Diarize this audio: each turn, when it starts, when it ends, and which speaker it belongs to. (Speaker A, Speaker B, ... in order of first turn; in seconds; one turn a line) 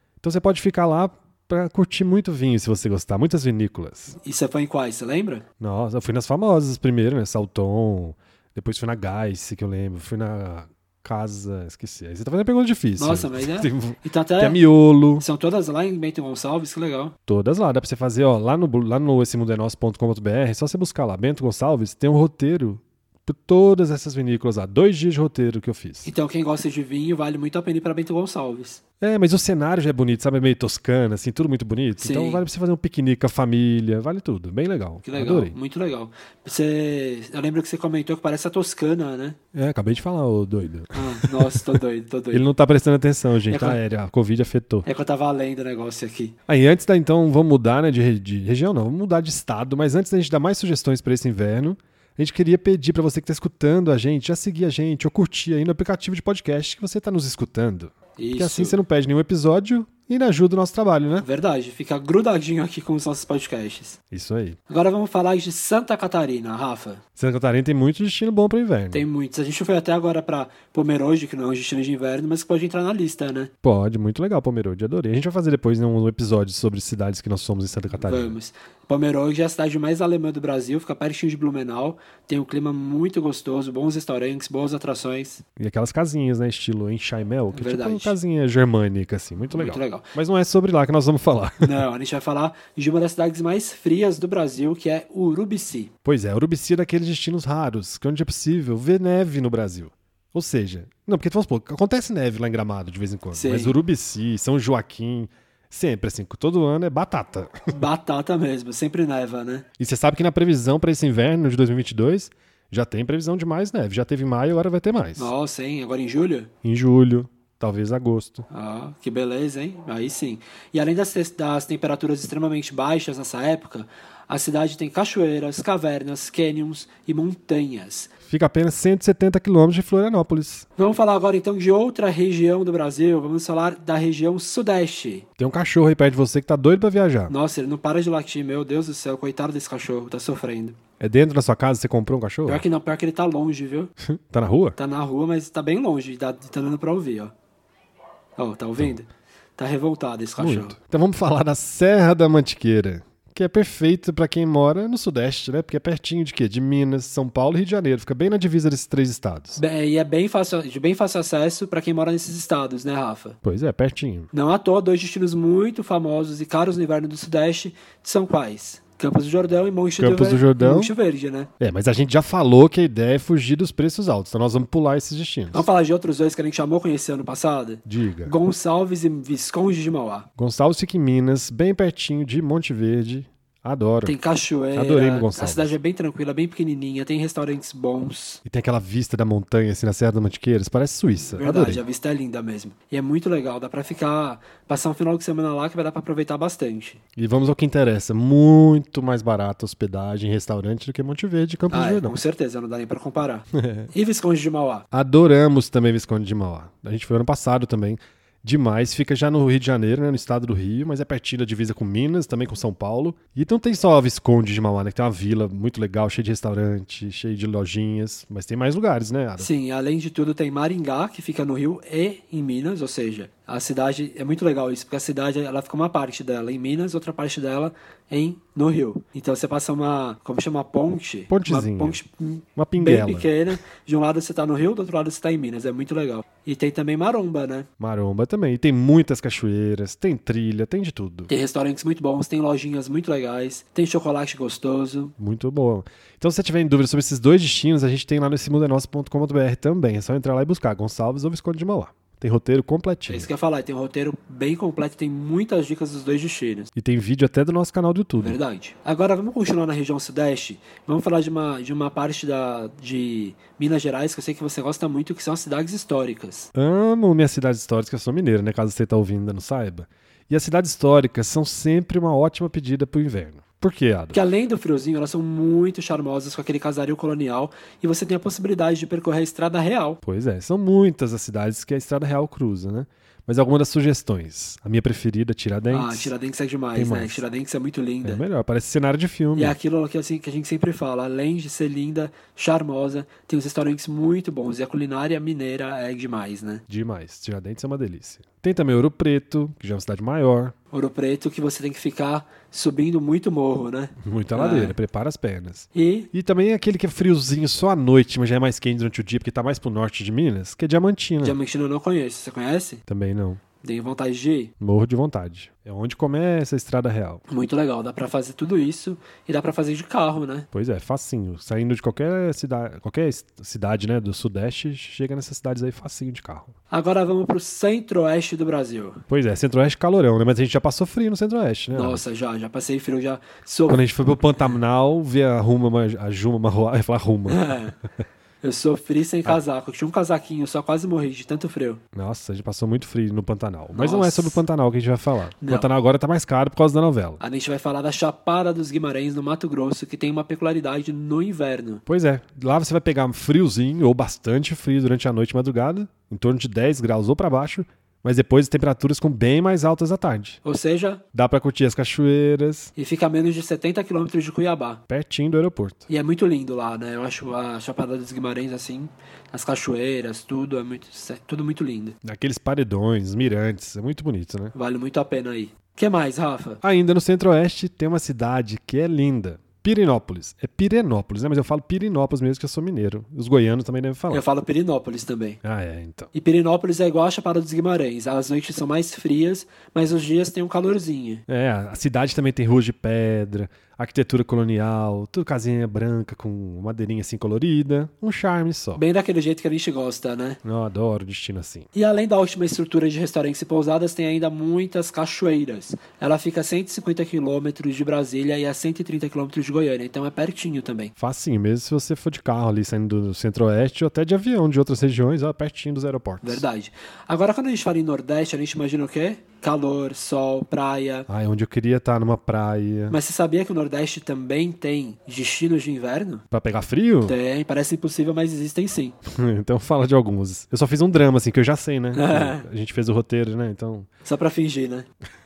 Speaker A: 0.2-4.2
Speaker B: 4.2-5.4
Speaker A: 5.6-15.2
Speaker B: 13.0-14.6
Speaker B: 15.2-17.1
Speaker A: 17.3-26.1
Speaker B: 26.1-28.8
Speaker A: 29.0-35.6
Speaker B: 32.0-32.4
Speaker B: 35.0-39.4
Speaker A: 39.5-41.6
Speaker B: 41.0-42.5
Speaker A: 42.3-44.9
Speaker B: 43.5-43.8
Speaker B: 44.8-46.4
Speaker A: 46.5-61.3
Speaker B: 58.2-58.8
Speaker B: 61.2-64.0
Speaker A: 64.1-64.6
Speaker B: 64.7-67.0
Speaker A: 67.2-69.0
Speaker B: 68.9-73.5
Speaker A: 73.6-78.4
Speaker B: 78.0-85.4
Speaker A: 85.6-91.8
Speaker B: 87.5-88.2
Speaker B: 89.5-90.1
Speaker B: 91.6-95.9
Speaker A: 96.0-107.7
Speaker B: 103.3-103.8
Speaker B: 107.7-109.7
Speaker A: 109.8-115.3
Speaker B: 115.2-116.5
Speaker A: 116.6-118.5
Speaker B: 118.5-128.1
Speaker A: 128.3-130.7
Speaker B: 130.8-135.2
Speaker A: 135.4-137.3
Speaker B: 137.3-140.8
Speaker A: 141.0-142.6
Speaker B: 142.5-143.9
Speaker A: 144.0-144.8
Speaker B: 144.8-147.3
Speaker B: 148.4-150.8
Speaker A: 150.4-159.6
Speaker B: 159.6-163.4
Speaker A: 163.4-164.3
Speaker B: 164.3-171.5
Speaker A: 170.0-170.9
Speaker A: 171.6-175.7
Speaker B: 175.5-180.3
Speaker A: 177.9-178.3
Speaker A: 180.4-184.2
Speaker B: 184.1-188.4
Speaker A: 184.8-185.7
Speaker A: 188.4-191.8
Speaker B: 191.4-197.0
Speaker A: 197.2-202.2
Speaker B: 201.7-204.9
Speaker A: 203.6-203.9
Speaker A: 204.9-219.5
Speaker B: 219.4-237.7
Speaker A: 231.3-232.0
Speaker A: 232.6-233.3
Speaker A: 237.8-241.3
Speaker B: 241.3-245.1
Speaker A: 245.2-253.3
Speaker B: 253.1-256.7
Speaker A: 256.8-258.4
Speaker B: 258.2-266.5
Speaker A: 266.6-274.2
Speaker B: 274.1-280.0
Speaker A: 280.1-286.1
Speaker B: 285.7-288.2
Speaker A: 286.8-287.2
Speaker A: 288.0-289.6
Speaker B: 289.4-296.6
Speaker A: 296.7-300.5
Speaker B: 300.7-304.8
Speaker A: 304.0-311.4
Speaker B: 305.8-306.1
Speaker B: 311.2-312.8
Speaker A: 312.9-313.4
Speaker B: 313.6-314.5
Speaker A: 314.6-317.2
Speaker B: 317.3-320.5
Speaker A: 320.5-326.5
Speaker B: 326.7-329.0
Speaker A: 329.1-332.0
Speaker B: 331.7-333.9
Speaker A: 333.7-337.6
Speaker B: 337.3-337.8
Speaker B: 338.4-341.8
Speaker A: 341.9-347.2
Speaker B: 343.7-344.4
Speaker B: 345.4-345.7
Speaker B: 347.2-351.8
Speaker A: 351.9-360.4
Speaker B: 360.4-361.0
Speaker A: 361.1-362.7
Speaker B: 362.8-364.8
Speaker A: 364.9-365.9
Speaker B: 365.9-372.0
Speaker A: 372.0-374.5
Speaker B: 374.5-376.6
Speaker A: 376.6-384.2
Speaker B: 384.1-385.4
Speaker A: 385.4-386.1
Speaker B: 386.1-391.2
Speaker A: 391.3-398.8
Speaker B: 398.8-400.4
Speaker A: 400.4-401.7
Speaker B: 401.8-410.9
Speaker A: 411.0-416.4
Speaker B: 416.2-421.1
Speaker A: 421.1-423.0
Speaker B: 422.9-426.2
Speaker A: 426.3-427.2
Speaker B: 427.1-429.0
Speaker A: 429.1-433.9
Speaker B: 431.9-432.5
Speaker B: 434.1-434.9